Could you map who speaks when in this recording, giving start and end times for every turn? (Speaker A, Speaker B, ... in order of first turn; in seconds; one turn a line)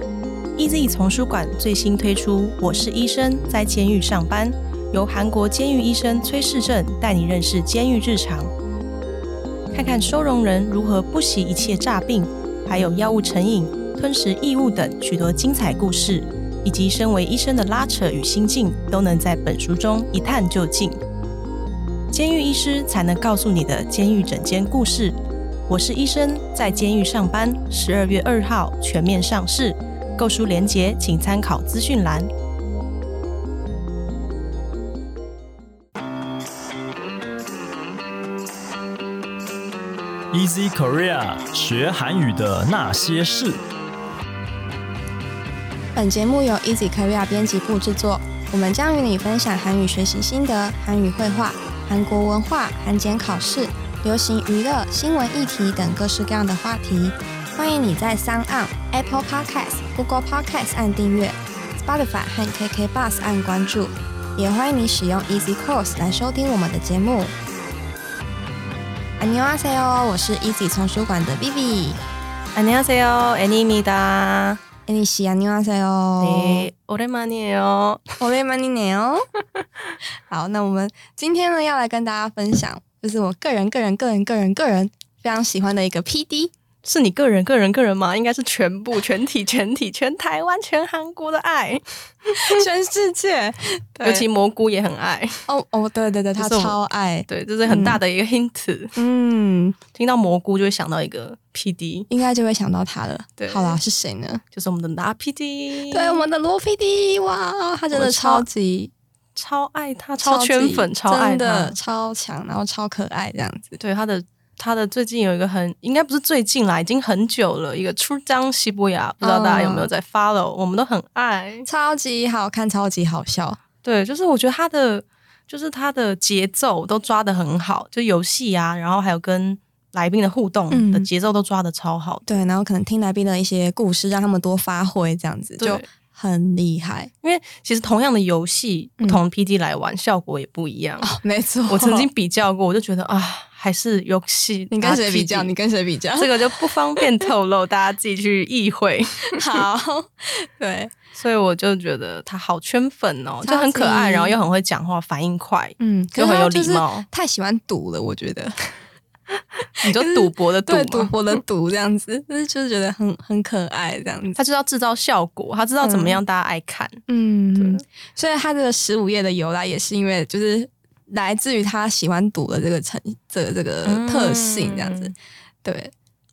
Speaker A: 0.6-8.5
Speaker A: 9.7-21.0
Speaker A: 22.1-25.2
Speaker A: 25.7-32.3
Speaker B: 40.3-43.6
Speaker C: 45.9-67.3
Speaker C: 69.2-72.0
Speaker A: 72.5-74.6
Speaker C: 74.9-76.7
Speaker A: 76.2-78.0
Speaker C: 78.2-79.2
Speaker C: 80.3-86.5
Speaker A: 86.8-92.6
Speaker C: 92.3-94.2
Speaker A: 94.0-95.4
Speaker C: 95.5-98.0
Speaker A: 96.4-99.0
Speaker C: 99.0-99.8
Speaker A: 99.9-102.1
Speaker C: 102.1-104.4
Speaker A: 103.4-103.8
Speaker A: 104.5-106.2
Speaker C: 105.9-108.9
Speaker A: 107.9-108.5
Speaker A: 109.3-111.7
Speaker C: 110.2-113.8
Speaker A: 113.8-121.7
Speaker C: 119.2-119.9
Speaker C: 121.7-123.6
Speaker A: 123.8-132.4
Speaker C: 130.7-131.1
Speaker C: 132.3-137.1
Speaker A: 135.6-135.8
Speaker A: 137.2-141.1
Speaker C: 141.0-142.1
Speaker A: 141.7-145.5
Speaker C: 144.7-146.7
Speaker A: 146.2-149.4
Speaker C: 149.3-150.9
Speaker A: 151.1-157.1
Speaker C: 153.4-154.4
Speaker C: 155.8-158.7
Speaker A: 159.8-161.4
Speaker C: 159.8-164.4
Speaker A: 164.3-167.0
Speaker C: 165.8-166.2
Speaker C: 167.1-175.1
Speaker A: 167.6-167.8
Speaker A: 173.8-175.1
Speaker C: 175.6-175.9